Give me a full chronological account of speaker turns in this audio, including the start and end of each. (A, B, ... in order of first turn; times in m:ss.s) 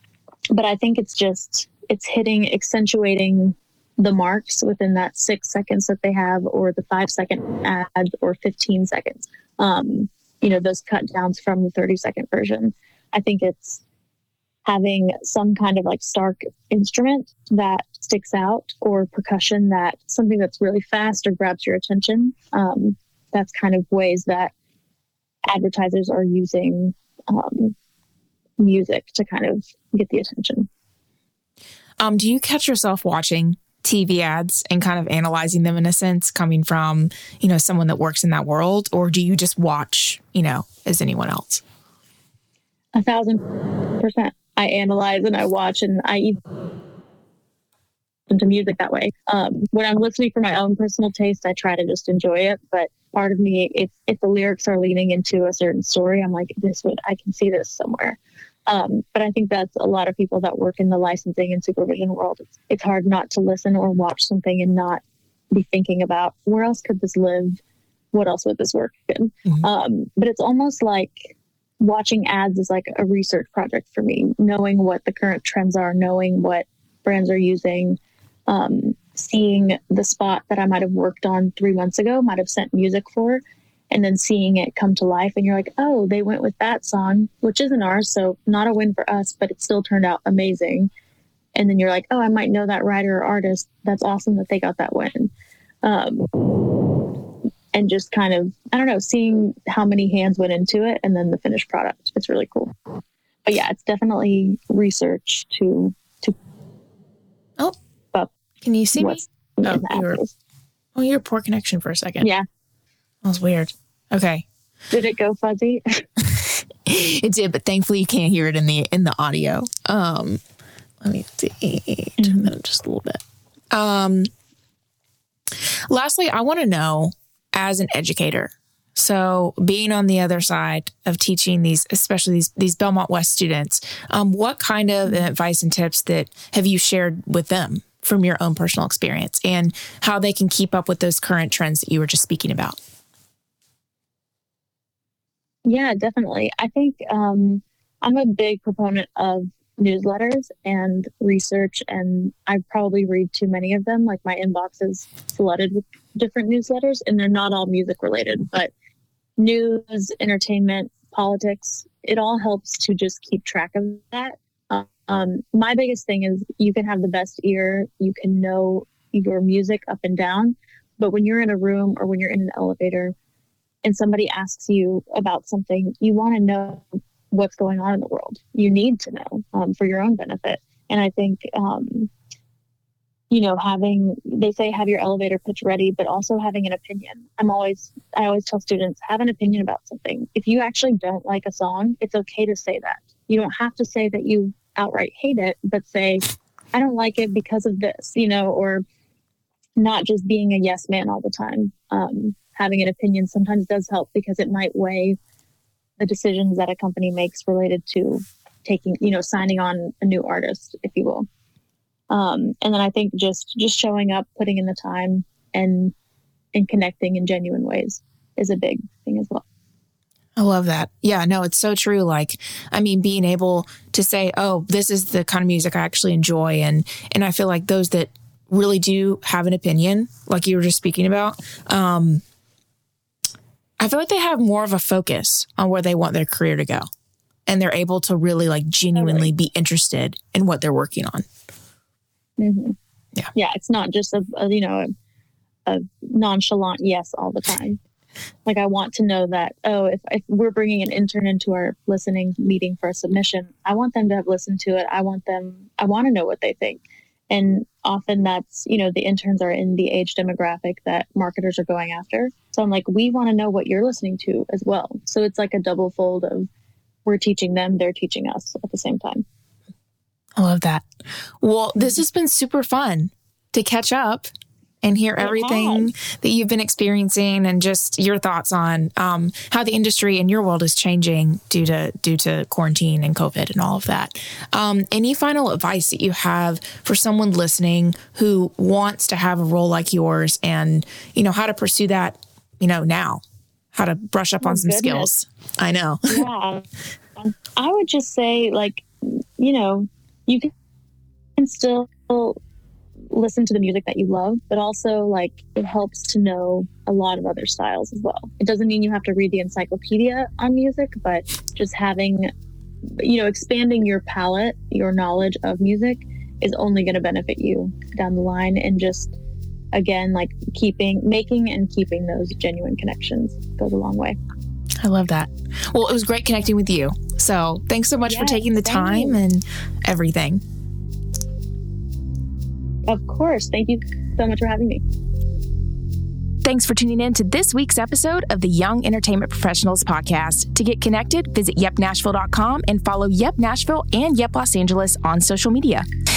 0:00.5-0:13.8 A
0:14.6-0:24.5 A
0:25.5-0:27.8 A
0:28.6-0:30.7 A
0:32.0-0:41.6 B
0:42.9-0:43.4 A
0:44.0-0:46.4 A
0:48.3-1:07.6 A
1:08.1-1:30.9 A
1:31.6-1:35.3 A
1:35.8-1:36.5 A
1:37.7-1:42.7 A
1:43.4-1:46.4 A
1:48.6-1:50.2 B
1:48.9-1:50.3 A
1:50.9-1:52.3 B
1:53.2-1:54.4 B
1:54.9-1:56.0 A
1:56.2-2:00.4 B
2:01.0-2:04.3 B
2:02.2-2:02.5 A
2:05.9-2:22.8 B
2:25.6-2:38.7 A
2:39.4-2:53.1 A
2:53.8-3:02.1 A
3:03.3-3:18.8 A
3:19.8-3:25.2 A
3:26.0-3:31.3 A
3:32.1-3:35.9 A
3:36.5-3:39.4 A
3:40.4-3:52.2 B
3:53.8-3:56.9 B
3:57.4-4:01.3 B
3:58.9-3:59.3 A
4:02.4-4:02.8 A
4:03.4-4:04.9 A
4:05.6-4:07.8 A
4:08.4-4:26.5 A
4:27.1-4:29.2 A
4:30.4-4:30.9 B
4:31.4-4:34.3 B
4:34.8-4:53.2 B
4:35.2-4:35.9 A
4:53.7-4:56.2 B
4:54.4-4:55.1 A
4:56.1-4:56.6 A
4:57.2-5:00.5 A
5:01.4-5:02.4 A
5:03.1-5:12.3 A
5:13.0-5:19.2 A
5:19.7-5:24.2 A
5:24.8-5:30.4 B
5:28.0-5:29.2 A
5:32.9-5:34.8 A
5:36.4-5:45.9 B